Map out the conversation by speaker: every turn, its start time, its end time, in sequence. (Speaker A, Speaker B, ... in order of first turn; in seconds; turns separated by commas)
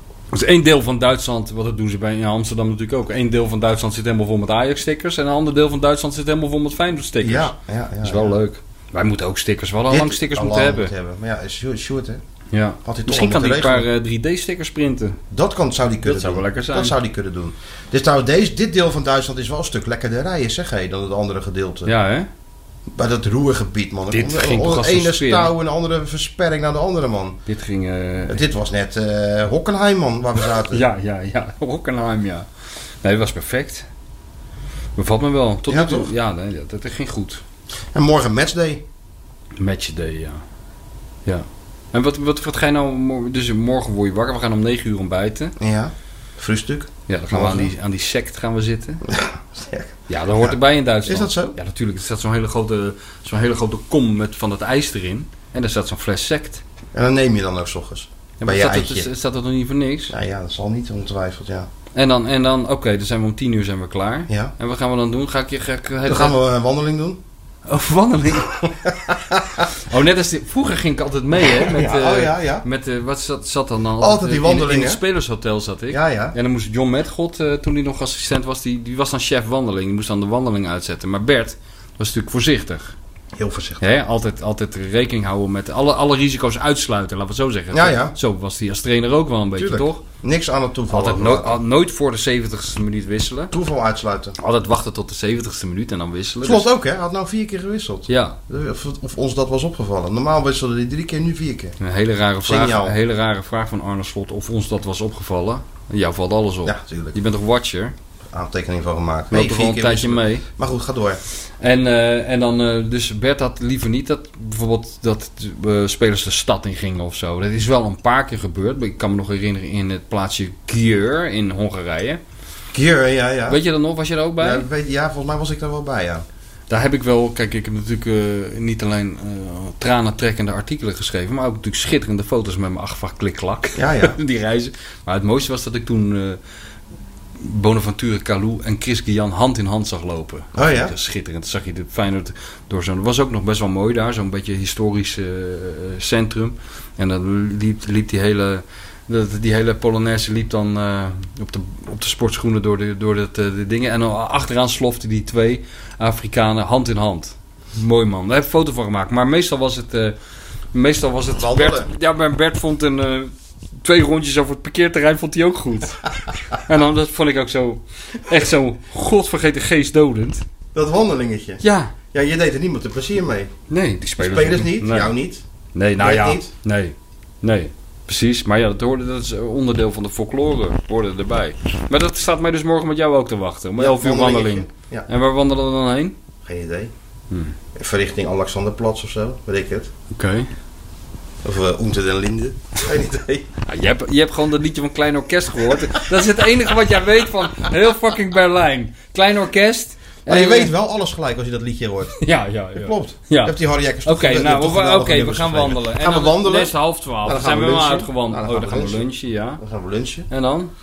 Speaker A: 0.3-10.9, Speaker B: 7.2-8.3, Speaker B: 9.9-12.2, Speaker A: 12.5-15.2, Speaker B: 12.8-13.9, Speaker B: 15.3-21.9, Speaker A: 16.0-16.9, Speaker A: 21.9-22.3, Speaker B: 22.9-27.4, Speaker A: 24.1-25.5, Speaker A: 27.5-28.4, Speaker B: 28.3-30.8, Speaker A: 30.7-32.5, Speaker A: 33.0-33.9, Speaker A: 35.0-37.4, Speaker B: 35.7-36.1, Speaker B: 37.9-38.8, Speaker A: 39.6-40.4, Speaker A: 41.2-45.5, Speaker B: 45.6-47.7, Speaker A: 47.1-49.0, Speaker B: 49.0-51.5, Speaker A: 50.1-56.6, Speaker B: 56.9-59.1, Speaker A: 58.4-60.1, Speaker B: 60.1-61.7, Speaker A: 61.9-66.3, Speaker B: 66.0-67.2, Speaker A: 67.6-68.7, Speaker B: 68.6-69.6, Speaker A: 69.7-82.9, Speaker B: 71.5-72.6, Speaker B: 74.0-75.0, Speaker B: 75.9-76.3, Speaker B: 83.3-83.8, Speaker A: 83.8-90.0, Speaker B: 87.7-88.1, Speaker B: 89.5-91.6, Speaker A: 90.9-93.5, Speaker B: 93.5-94.3, Speaker A: 94.4-96.7, Speaker B: 96.4-101.8, Speaker A: 98.1-98.4, Speaker A: 101.8-107.9, Speaker B: 102.4-103.0, Speaker B: 106.6-107.2, Speaker B: 108.3-111.2, Speaker A: 109.3-110.4, Speaker A: 111.6-122.2, Speaker B: 122.7-123.6, Speaker A: 123.5-124.7, Speaker B: 124.4-126.2, Speaker A: 126.7-136.4, Speaker B: 133.8-134.1, Speaker A: 137.4-160.2, Speaker B: 140.6-140.9, Speaker A: 160.7-170.4, Speaker B: 161.3-161.9, Speaker B: 170.7-173.5, Speaker A: 171.6-171.9, Speaker A: 173.7-175.1, Speaker B: 174.2-175.4, Speaker A: 175.7-186.2, Speaker B: 176.0-176.5, Speaker B: 183.8-185.1, Speaker B: 186.4-186.9, Speaker A: 187.3-187.6, Speaker B: 187.7-189.9, Speaker A: 190.1-190.5, Speaker B: 191.4-193.5, Speaker A: 193.6-200.7, Speaker B: 200.2-202.2, Speaker A: 202.2-209.6, Speaker B: 202.8-209.1, Speaker B: 209.6-210.3, Speaker A: 210.3-210.7